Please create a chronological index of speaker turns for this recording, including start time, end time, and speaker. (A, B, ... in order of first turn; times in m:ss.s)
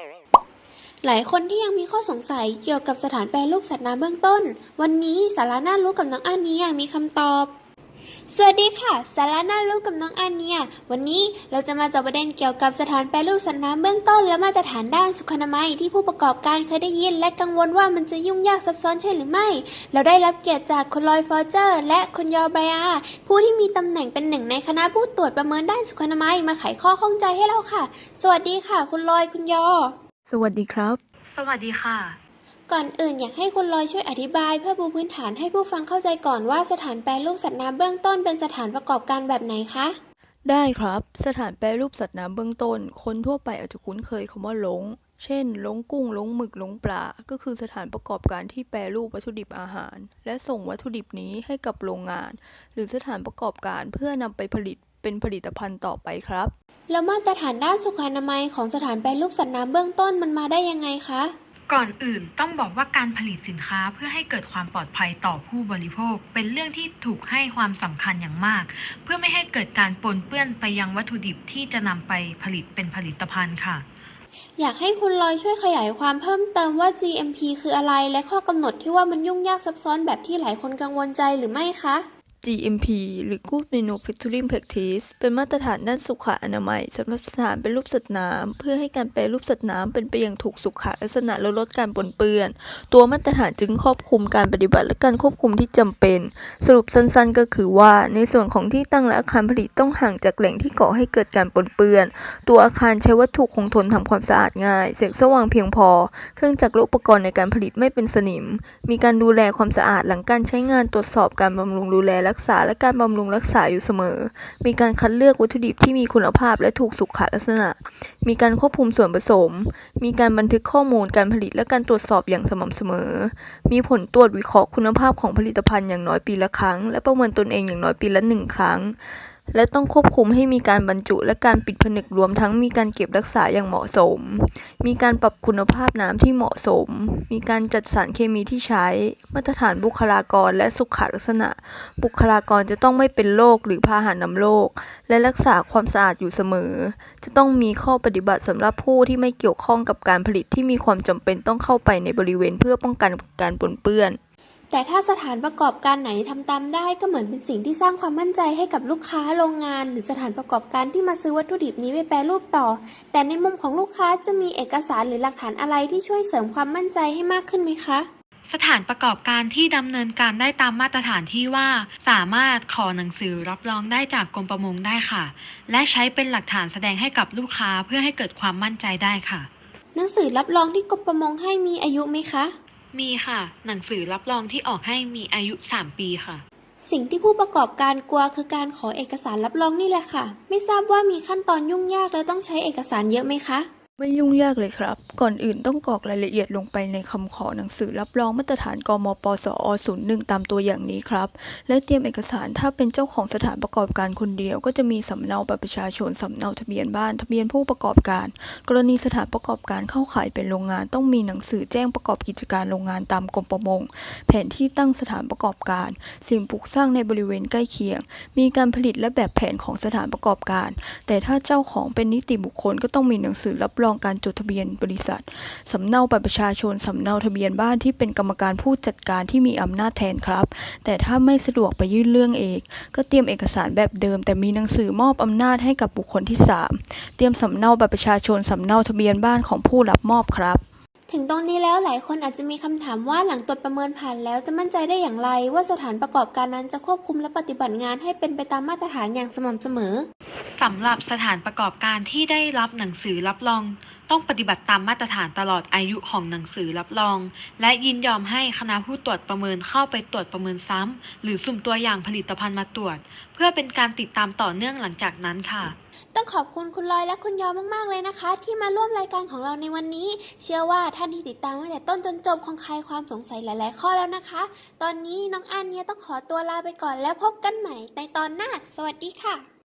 0:01.0-0:07.5 A
0:08.3-0:30.0 A
0:30.3-0:31.0 B
0:31.3-0:32.2 C
0:32.7-0:40.0 A
0:40.4-0:56.5 B
0:56.9-1:01.3 A
1:01.7-1:13.8 C
1:14.6-1:22.0 A
1:22.4-2:09.0 B
2:09.5-2:34.2 B
2:34.7-2:48.1 A
2:48.5-2:59.5 C
3:00.0-3:02.5 A
3:02.9-3:06.4 C
3:06.8-3:13.7 A
3:14.0-4:00.6 B
4:01.1-4:10.1 A
4:10.6-4:25.8 C
4:26.1-4:39.5 A